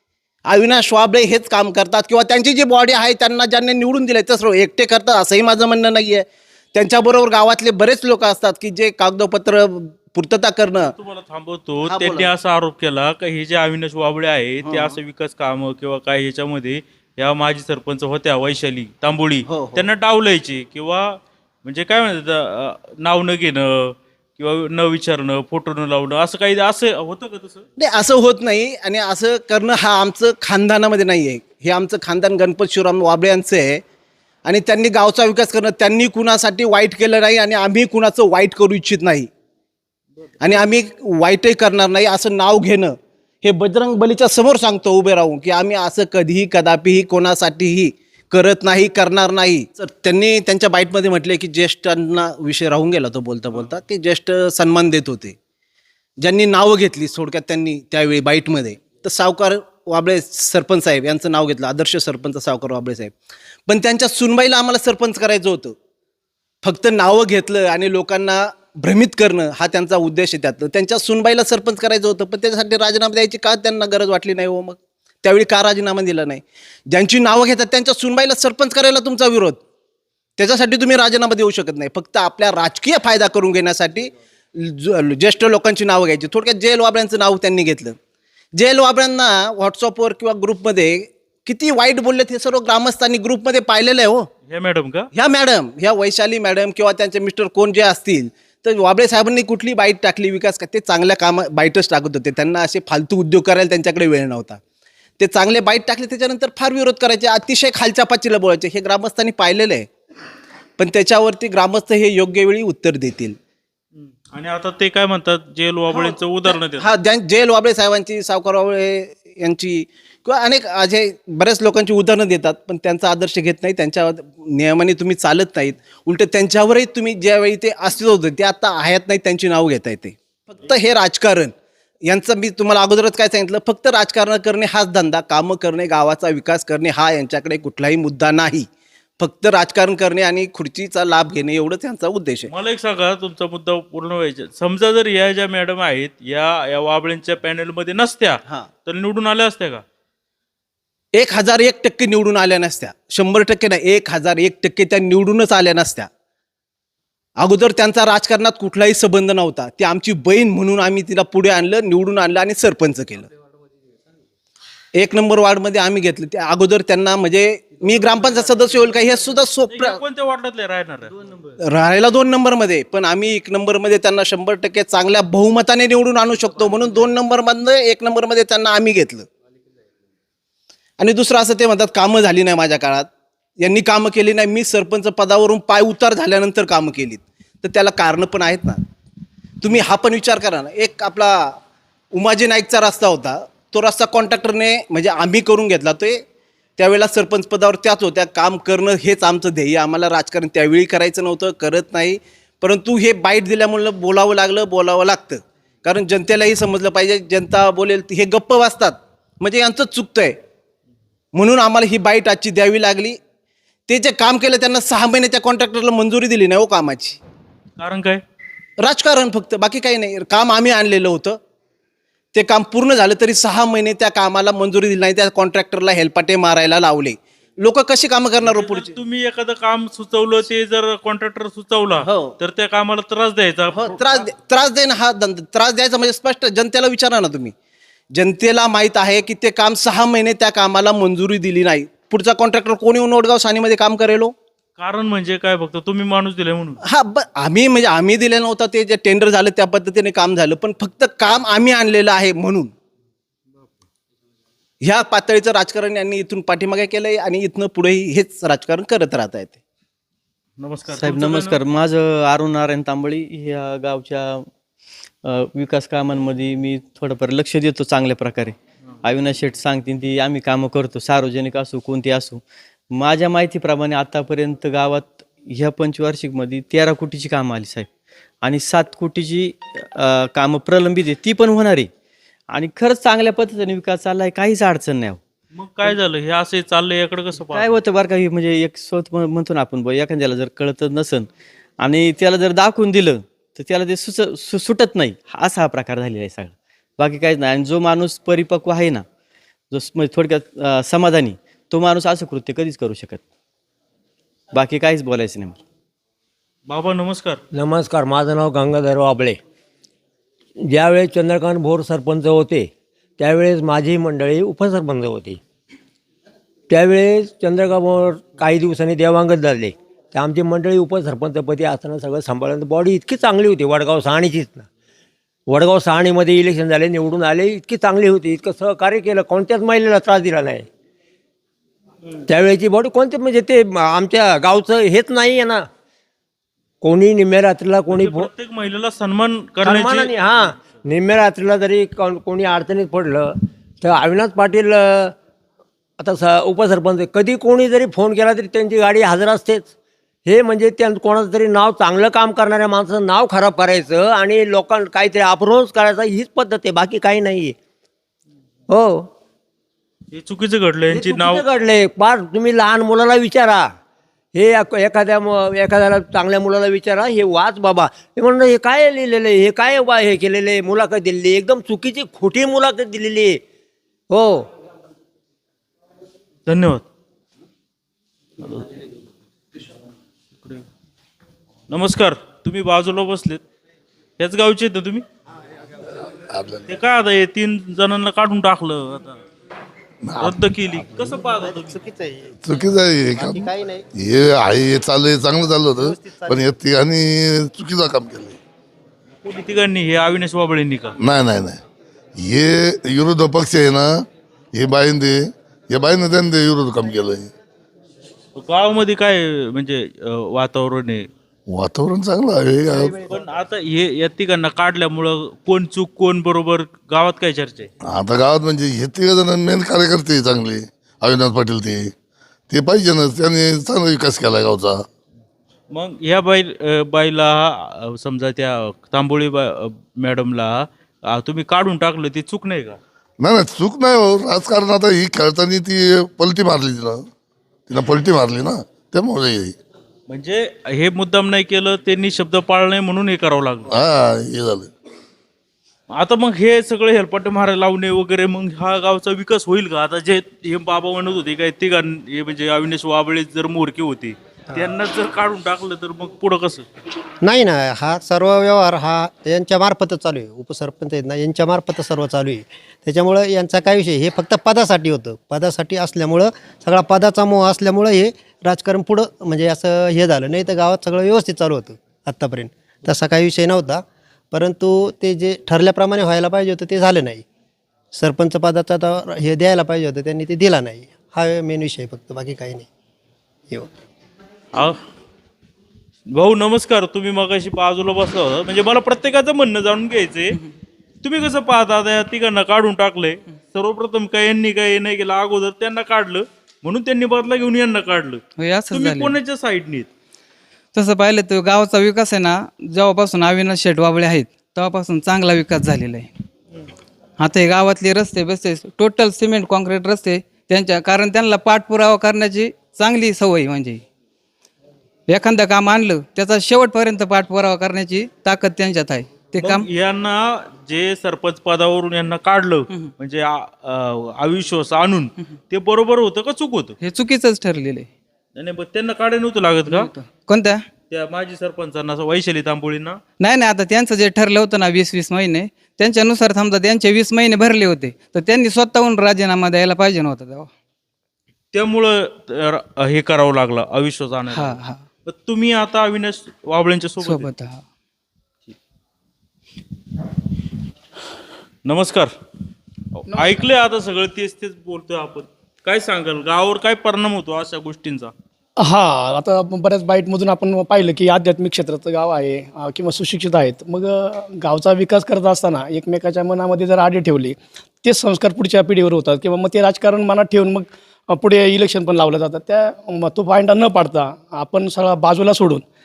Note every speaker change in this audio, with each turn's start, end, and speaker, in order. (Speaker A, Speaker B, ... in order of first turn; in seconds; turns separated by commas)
Speaker A: 0.5-10.9, Speaker B: 10.9-27.6, Speaker A: 11.9-12.3, Speaker A: 14.7-14.9, Speaker A: 19.5-19.9, Speaker A: 27.8-33.8, Speaker A: 34.5-39.3, Speaker A: 40.4-55.4, Speaker A: 56.2-63.1, Speaker A: 63.7-65.8, Speaker A: 66.6-79.6, Speaker A: 80.4-88.0, Speaker A: 88.5-94.3, Speaker B: 94.5-95.1, Speaker A: 95.1-104.6, Speaker A: 105.2-109.9, Speaker A: 110.8-113.4, Speaker B: 114.3-116.9, Speaker A: 115.9-131.5, Speaker A: 132.1-138.7, Speaker A: 139.2-142.5, Speaker B: 142.5-149.8, Speaker A: 151.1-156.1, Speaker A: 157.4-163.3, Speaker A: 164.9-170.0, Speaker B: 169.7-171.1, Speaker A: 171.6-179.3, Speaker A: 181.0-183.1, Speaker A: 183.6-188.8, Speaker A: 189.6-191.6, Speaker A: 192.1-196.2, Speaker A: 196.8-210.4, Speaker A: 211.3-213.2, Speaker A: 213.9-217.2, Speaker B: 217.8-218.2, Speaker A: 218.8-221.4, Speaker A: 222.3-228.9, Speaker B: 228.4-234.2, Speaker A: 232.0-232.3, Speaker A: 233.8-237.5, Speaker A: 238.1-244.3, Speaker B: 244.8-246.8, Speaker A: 246.8-252.7, Speaker A: 254.8-259.6, Speaker B: 260.6-261.6, Speaker C: 260.9-264.5, Speaker C: 265.2-277.9, Speaker C: 278.4-281.9, Speaker C: 282.5-285.2, Speaker B: 285.5-287.7, Speaker C: 287.5-291.3, Speaker C: 291.8-299.0, Speaker C: 299.7-303.2, Speaker C: 304.5-305.6, Speaker B: 306.7-307.4, Speaker D: 307.5-309.4, Speaker D: 310.7-315.4, Speaker D: 316.7-324.7, Speaker D: 325.5-330.6, Speaker D: 332.2-335.7, Speaker D: 336.8-338.3, Speaker B: 337.9-340.1, Speaker D: 339.6-345.1, Speaker D: 346.0-349.7, Speaker D: 350.2-357.6, Speaker D: 358.7-359.1, Speaker B: 360.1-361.4, Speaker D: 360.9-363.7, Speaker D: 364.4-373.4, Speaker D: 374.1-374.5, Speaker B: 376.5-376.8, Speaker B: 378.4-378.7, Speaker B: 381.7-383.4, Speaker B: 384.2-385.0, Speaker E: 386.3-386.6, Speaker B: 386.7-389.2, Speaker E: 390.0-390.4, Speaker B: 390.2-391.8, Speaker F: 391.6-392.4, Speaker E: 392.4-393.5, Speaker F: 393.2-393.9, Speaker E: 394.0-398.4, Speaker F: 395.8-396.4, Speaker B: 399.2-401.0, Speaker E: 401.0-401.6, Speaker E: 402.2-403.9, Speaker E: 404.5-407.3, Speaker B: 408.4-411.1, Speaker E: 411.5-413.0, Speaker B: 413.1-417.7, Speaker E: 417.9-421.9, Speaker E: 422.5-424.8, Speaker B: 425.7-432.8, Speaker E: 433.2-437.0, Speaker E: 437.7-439.6, Speaker B: 440.1-443.7, Speaker E: 443.7-444.7, Speaker B: 445.9-456.7, Speaker F: 457.2-477.2, Speaker F: 477.9-482.7, Speaker B: 486.1-490.4, Speaker B: 491.0-499.9, Speaker G: 498.4-499.2, Speaker G: 500.7-506.1, Speaker G: 507.2-513.8, Speaker G: 515.1-519.7, Speaker B: 519.4-526.8, Speaker G: 526.8-527.9, Speaker B: 528.4-529.9, Speaker G: 529.7-530.6, Speaker B: 530.9-533.0, Speaker G: 533.2-540.5, Speaker B: 541.5-544.5, Speaker G: 544.3-544.9, Speaker B: 545.1-547.3, Speaker G: 547.0-547.6, Speaker B: 551.6-552.1, Speaker B: 553.0-558.1, Speaker H: 558.6-575.6